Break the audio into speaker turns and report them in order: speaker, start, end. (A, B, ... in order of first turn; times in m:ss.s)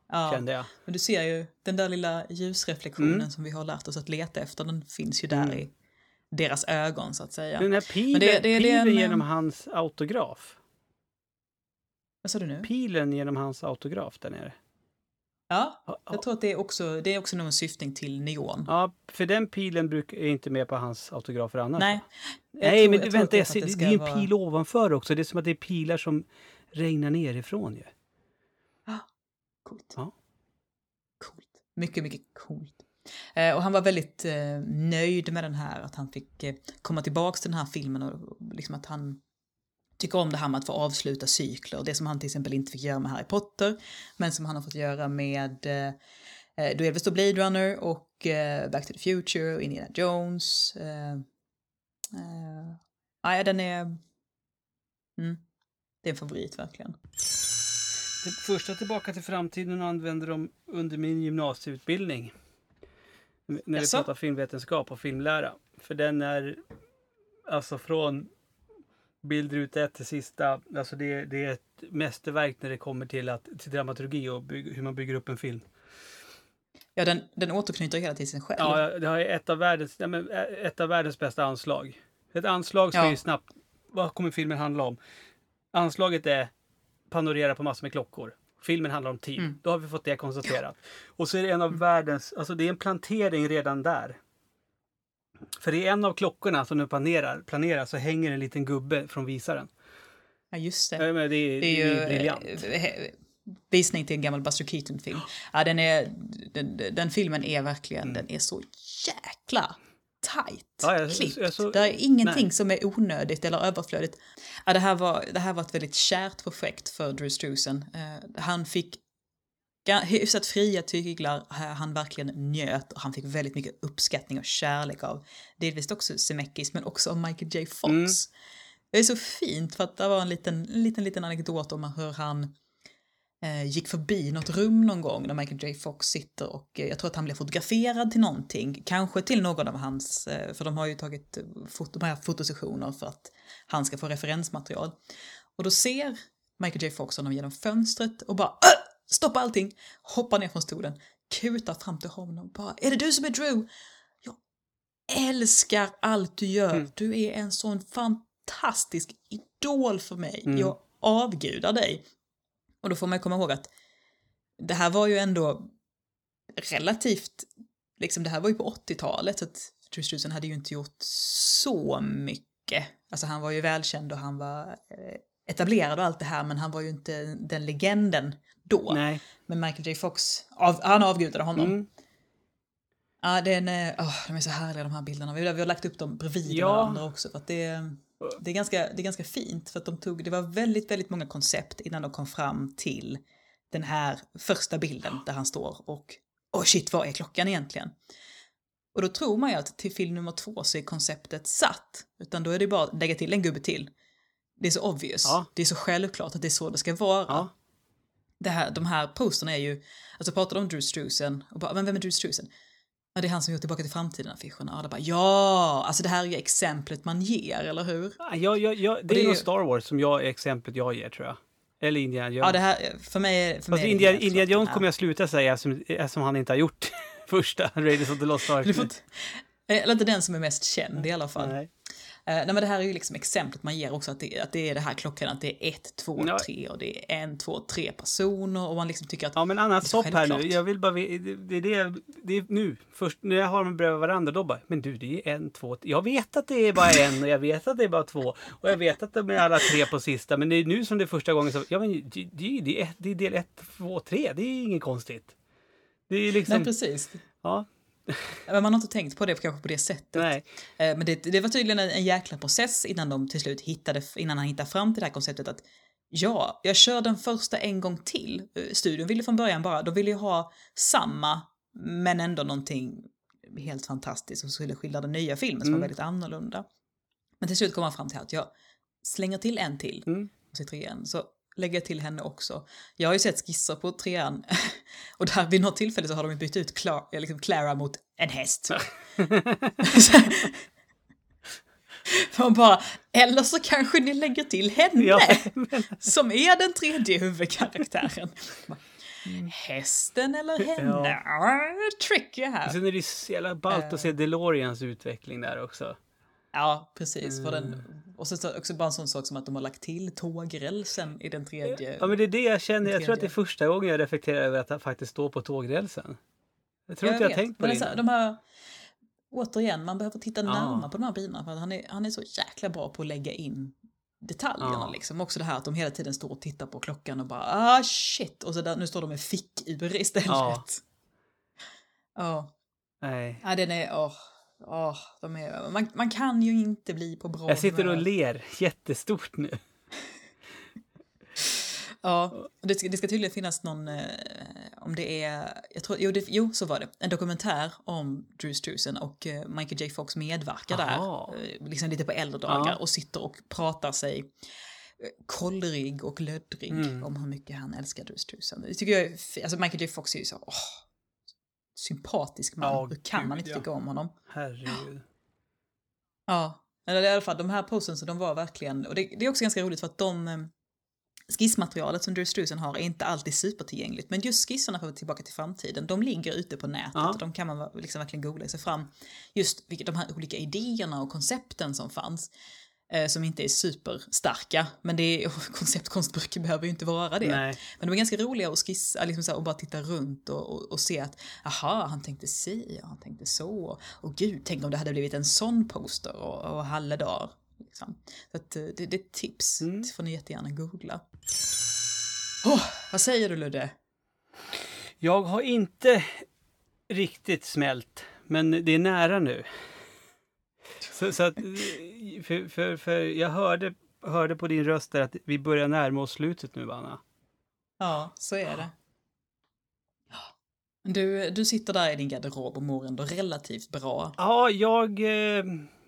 0:00.1-0:05.7 A
0:00.3-0:00.7 B
0:03.0-0:03.3 B
0:05.3-0:05.6 B
0:06.3-0:09.2 A
0:07.6-0:10.6 B
0:12.2-0:12.7 A
0:12.6-0:14.6 B
0:15.5-0:18.7 A
0:18.7-0:22.0 B
0:21.8-0:24.3 A
0:22.6-0:27.9 B
0:29.6-0:30.0 A
0:31.2-0:39.2 A
0:40.0-0:46.0 A
0:46.6-0:51.2 A
0:52.1-0:54.0 A
0:55.2-0:55.4 A
0:56.0-0:57.0 A
0:58.2-1:02.3 B
1:03.5-1:06.6 B
1:03.8-1:04.1 A
1:07.5-1:08.3 B
1:09.2-1:15.7 B
1:17.0-1:18.8 A
1:18.6-1:25.0 B
1:25.7-1:26.5 B
1:27.1-1:34.2 B
1:35.6-1:39.7 B
1:40.5-1:41.0 A
1:41.0-1:42.6 B
1:41.6-1:43.2 A
1:43.7-1:59.0 A
1:50.8-1:52.4 B
1:59.8-2:08.3 A
2:07.8-2:08.1 B
2:08.9-2:12.5 A
2:13.4-2:25.0 A
2:25.6-2:33.7 A
2:35.1-2:42.0 A
2:40.5-2:40.7 B
2:42.8-2:43.7 A
2:44.6-2:45.7 A
2:46.6-2:47.5 A
2:48.0-3:01.8 A
2:58.9-2:59.2 B
3:01.6-3:01.9 B
3:03.2-3:13.2 A
3:06.5-3:07.0 B
3:13.7-3:17.9 A
3:18.9-3:23.9 A
3:24.6-3:27.5 A
3:28.4-3:32.5 A
3:33.1-3:38.2 A
3:38.2-3:42.6 B
3:39.1-3:39.4 A
3:42.4-3:44.8 A
3:43.7-3:48.9 B
3:48.6-3:51.6 A
3:51.4-3:51.7 B
3:52.3-4:00.6 A
3:56.2-3:56.5 B
3:59.4-4:15.3 B
4:16.1-4:16.7 B
4:16.5-4:17.2 A
4:17.4-4:18.4 B
4:18.4-4:36.6 A
4:20.1-4:20.4 B
4:35.6-4:35.9 B
4:37.4-4:38.5 A
4:39.0-4:48.9 A
4:49.2-4:49.8 B
4:49.8-4:50.6 A
4:52.0-5:02.8 A
4:55.0-4:56.1 B
5:00.7-5:01.2 B
5:02.6-5:06.0 B
5:03.7-5:04.1 A
5:06.5-5:12.1 A
5:07.2-5:07.8 B
5:12.0-5:16.2 B
5:12.8-5:13.3 A
5:16.9-5:18.0 B
5:17.0-5:18.4 A
5:19.3-5:30.8 A
5:20.4-5:20.9 B
5:24.6-5:25.0 B
5:30.3-5:30.6 B
5:32.2-5:32.5 A
5:33.0-5:33.4 B
5:33.4-5:38.1 A
5:37.5-5:39.6 B
5:42.0-5:54.3 A
5:50.7-5:51.3 B
5:52.5-5:52.8 B
5:55.0-6:00.8 A
5:56.7-5:57.1 B
6:01.7-6:04.1 A
6:02.6-6:03.6 B
6:04.3-6:05.0 B
6:06.3-6:10.5 A
6:11.3-6:22.3 A
6:22.9-6:41.0 A
6:27.2-6:27.6 B
6:39.6-6:39.9 B
6:42.4-6:43.7 A
6:45.0-6:46.2 B
6:46.9-6:49.5 B
6:50.8-6:57.0 B
6:57.8-6:58.7 A
7:00.8-7:04.2 A
7:04.2-7:05.7 B